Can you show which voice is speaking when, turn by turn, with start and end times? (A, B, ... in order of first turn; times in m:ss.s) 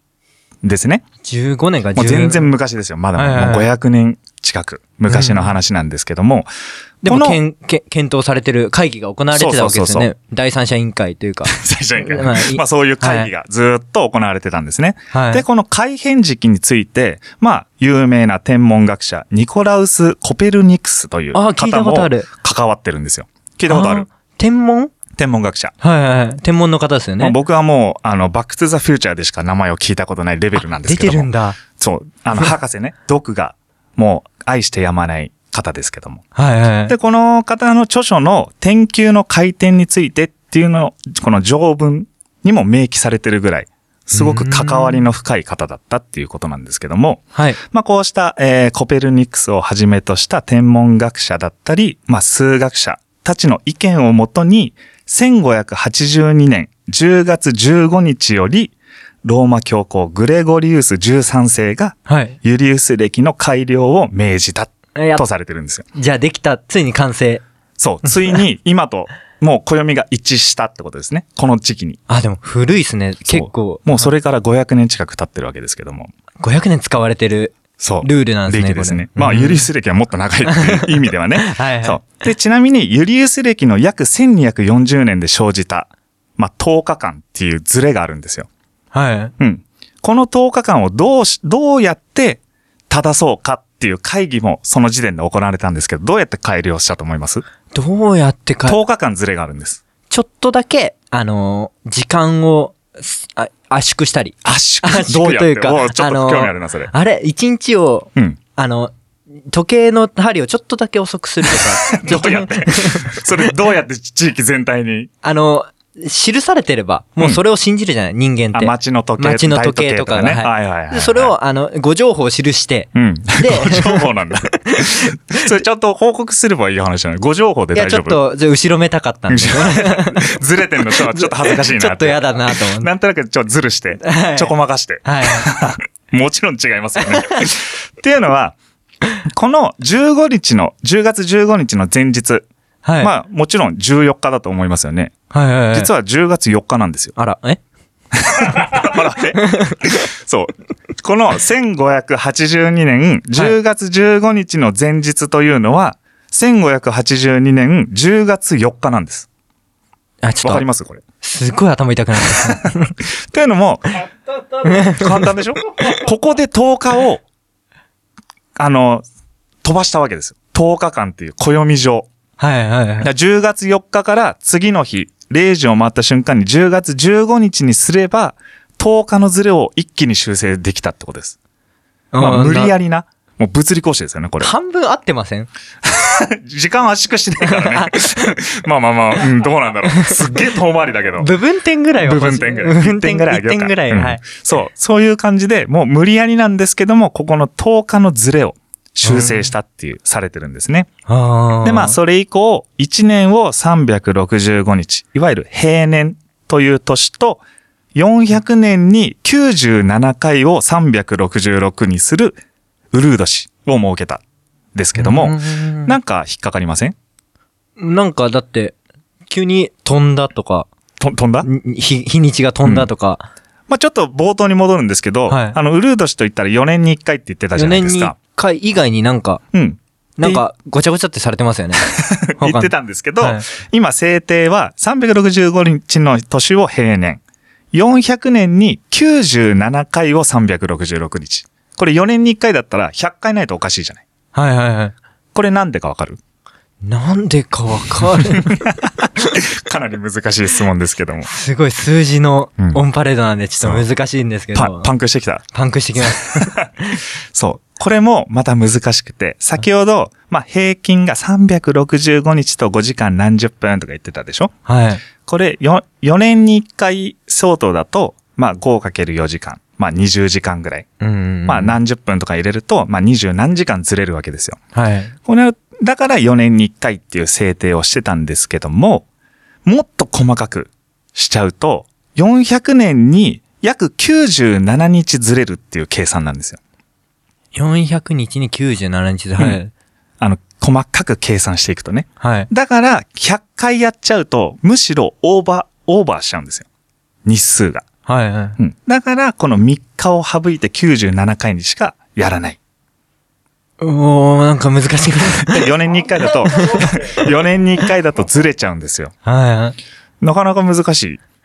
0:00.6-0:01.0 A
0:01.2-0:02.5 B
0:02.0-0:06.5 A
0:03.2-0:03.7 B
0:05.1-0:05.5 B
0:07.0-0:13.3 B
0:07.0-0:07.4 A
0:09.3-0:10.1 A
0:11.5-0:24.1 A
0:15.1-0:15.4 B
0:21.3-0:22.3 B
0:23.7-0:24.9 B
0:25.1-0:25.7 A
0:25.8-0:27.4 B
0:27.2-0:36.2 A
0:30.7-0:31.6 B
0:36.4-0:37.0 B
0:36.9-1:05.9 A
0:44.1-0:45.0 B
1:02.1-1:02.4 B
1:05.0-1:05.2 B
1:06.0-1:07.4 B
1:07.8-1:12.0 A
1:12.1-1:14.1 B
1:13.3-1:16.1 A
1:16.4-1:19.7 B
1:17.8-1:28.5 A
1:20.5-1:22.0 B
1:28.9-1:29.3 B
1:29.4-1:37.4 A
1:37.7-1:38.8 B
1:38.7-1:39.8 A
1:40.1-1:48.9 B
1:44.4-1:46.9 A
1:49.5-1:53.2 B
1:51.6-1:55.1 A
1:55.2-2:04.1 B
1:58.5-2:01.3 A
2:03.0-2:08.2 A
2:04.6-2:05.5 B
2:07.7-2:10.3 B
2:09.3-2:18.6 A
2:10.9-2:12.9 B
2:14.0-2:14.5 B
2:15.0-2:15.5 B
2:17.0-2:17.4 B
2:19.2-2:22.5 A
2:22.8-2:23.1 B
2:23.0-2:25.2 A
2:25.3-2:25.9 B
2:25.7-2:27.2 A
2:27.2-2:27.6 B
2:28.1-2:39.3 A
2:29.4-2:29.8 B
2:40.2-2:40.7 B
2:40.4-2:41.0 A
2:41.2-2:42.9 B
2:42.4-2:44.0 A
2:44.6-2:47.2 A
2:44.6-2:45.2 B
2:48.6-2:49.0 A
2:49.6-2:52.1 A
2:52.4-2:53.1 B
2:53.0-3:01.4 A
3:02.1-3:02.7 B
3:02.2-3:04.5 A
3:04.4-3:05.5 B
3:05.8-3:11.3 A
3:07.4-3:08.4 B
3:11.2-3:14.2 B
3:12.0-3:20.9 A
3:19.0-3:19.5 B
3:21.1-3:22.0 B
3:21.6-3:27.4 A
3:28.0-3:32.4 A
3:32.9-3:34.2 A
3:34.8-3:37.0 A
3:35.0-3:36.0 B
3:37.8-3:38.8 B
3:39.3-3:40.7 B
3:41.0-3:41.5 A
3:41.4-3:43.3 B
3:43.7-3:48.2 A
3:45.3-3:45.6 B
3:47.6-3:49.4 B
3:49.5-3:50.4 A
3:50.2-3:53.4 B
3:51.8-3:57.2 A
3:57.7-4:04.0 A
4:04.3-4:05.0 B
4:05.3-4:06.2 A
4:06.8-4:08.7 B
4:08.4-4:11.3 A
4:11.2-4:14.9 B
4:14.5-4:15.4 A
4:15.5-4:17.0 B
4:16.0-4:16.7 A
4:17.3-4:24.5 A
4:24.7-4:25.0 B
4:25.2-4:30.9 A
4:31.0-4:31.8 B
4:31.5-4:34.6 A
4:34.8-4:35.1 B
4:35.2-4:39.1 A
4:39.6-4:46.6 A
4:47.5-4:49.7 B
4:50.2-4:56.7 A
4:52.2-4:52.5 B
4:57.2-4:57.8 A
4:58.1-4:58.6 B
4:58.6-5:02.6 A
5:03.8-5:05.7 B
5:05.4-5:09.1 A
5:06.5-5:07.1 B
5:09.2-5:09.8 B
5:10.2-5:11.2 A